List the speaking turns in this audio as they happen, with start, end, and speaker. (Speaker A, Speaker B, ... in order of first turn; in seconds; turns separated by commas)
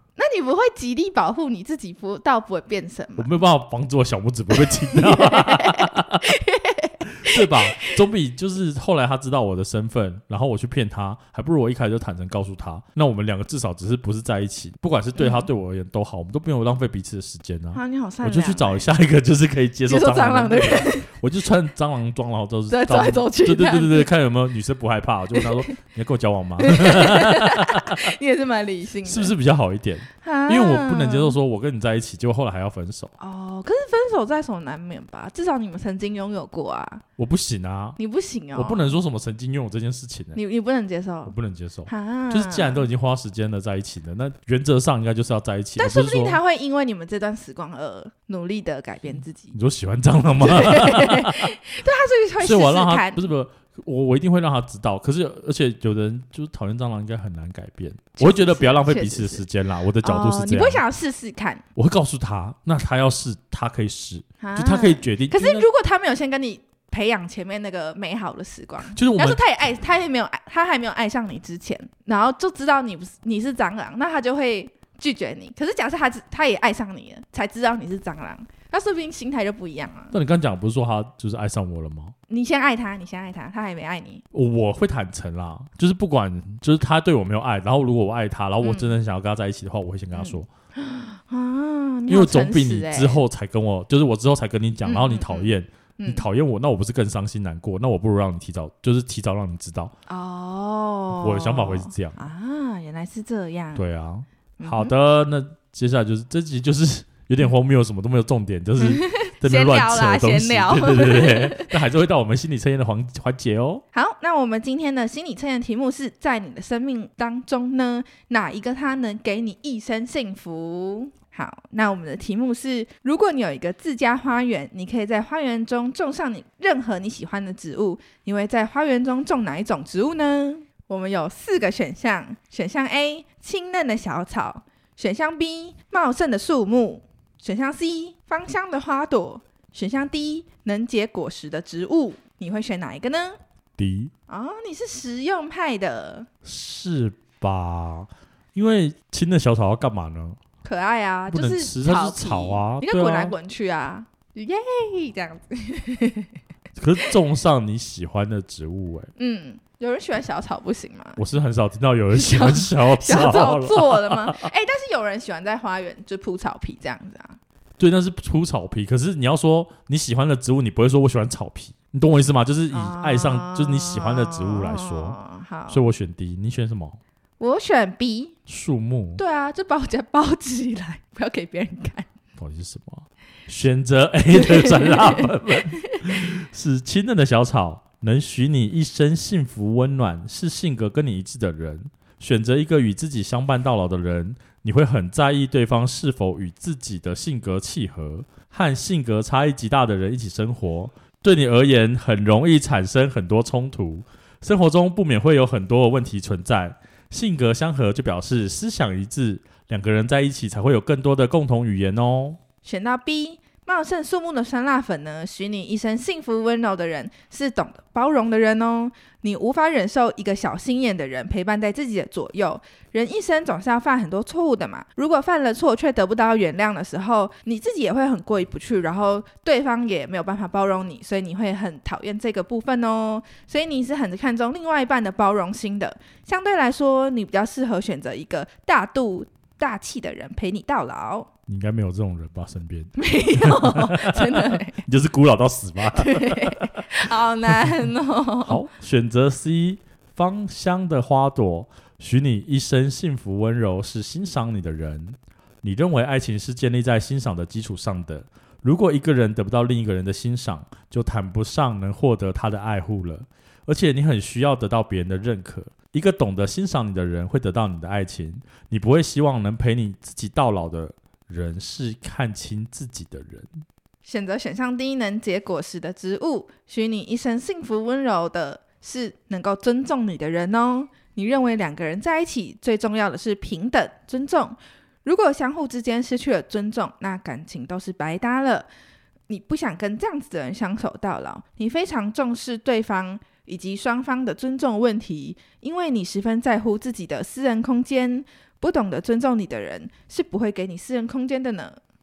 Speaker A: 0.2-3.4, Speaker B: 3.2-6.3, Speaker A: 4.5-8.0, Speaker B: 7.0-28.1, Speaker A: 15.2-15.5, Speaker A: 17.7-18.9, Speaker A: 19.9-21.1, Speaker A: 22.7-24.1, Speaker A: 25.4-25.7, Speaker A: 26.6-29.3, Speaker B: 29.0-33.1, Speaker A: 30.1-31.4, Speaker A: 33.2-37.0, Speaker B: 37.2-38.0, Speaker A: 38.0-39.0, Speaker B: 38.5-40.4, Speaker A: 40.4-41.4, Speaker B: 41.2-46.4, Speaker A: 41.9-42.9, Speaker A: 45.8-49.5, Speaker B: 49.5-51.5, Speaker A: 50.4-53.3, Speaker B: 52.4-60.8, Speaker A: 58.2-59.5, Speaker A: 60.0-61.6, Speaker B: 61.8-65.7, Speaker A: 64.4-80.1, Speaker B: 68.9-69.4, Speaker B: 80.1-82.1, Speaker A: 82.3-84.2, Speaker B: 84.3-90.5, Speaker A: 88.6-89.0, Speaker A: 90.1-93.2, Speaker B: 92.1-100.0, Speaker A: 94.8-96.3, Speaker A: 100.1-103.8, Speaker B: 101.1-102.2, Speaker B: 103.8-113.8, Speaker A: 104.6-104.9, Speaker A: 108.8-111.7, Speaker A: 113.9-143.4, Speaker B: 143.8-144.1, Speaker A: 144.3-146.3, Speaker B: 146.4-150.4, Speaker A: 150.6-156.3, Speaker B: 151.3-153.3, Speaker B: 156.8-159.1, Speaker A: 159.2-161.2, Speaker B: 161.2-164.5, Speaker A: 162.1-167.4, Speaker B: 167.8-177.0, Speaker A: 172.7-175.8, Speaker A: 177.4-178.4, Speaker B: 178.5-179.2, Speaker A: 179.2-182.1, Speaker B: 182.4-212.4, Speaker A: 184.3-185.3, Speaker A: 212.6-241.3, Speaker B: 241.5-247.6, Speaker A: 243.0-244.8, Speaker A: 245.9-248.6, Speaker B: 248.4-273.5, Speaker A: 274.0-288.7, Speaker A: 289.3-301.8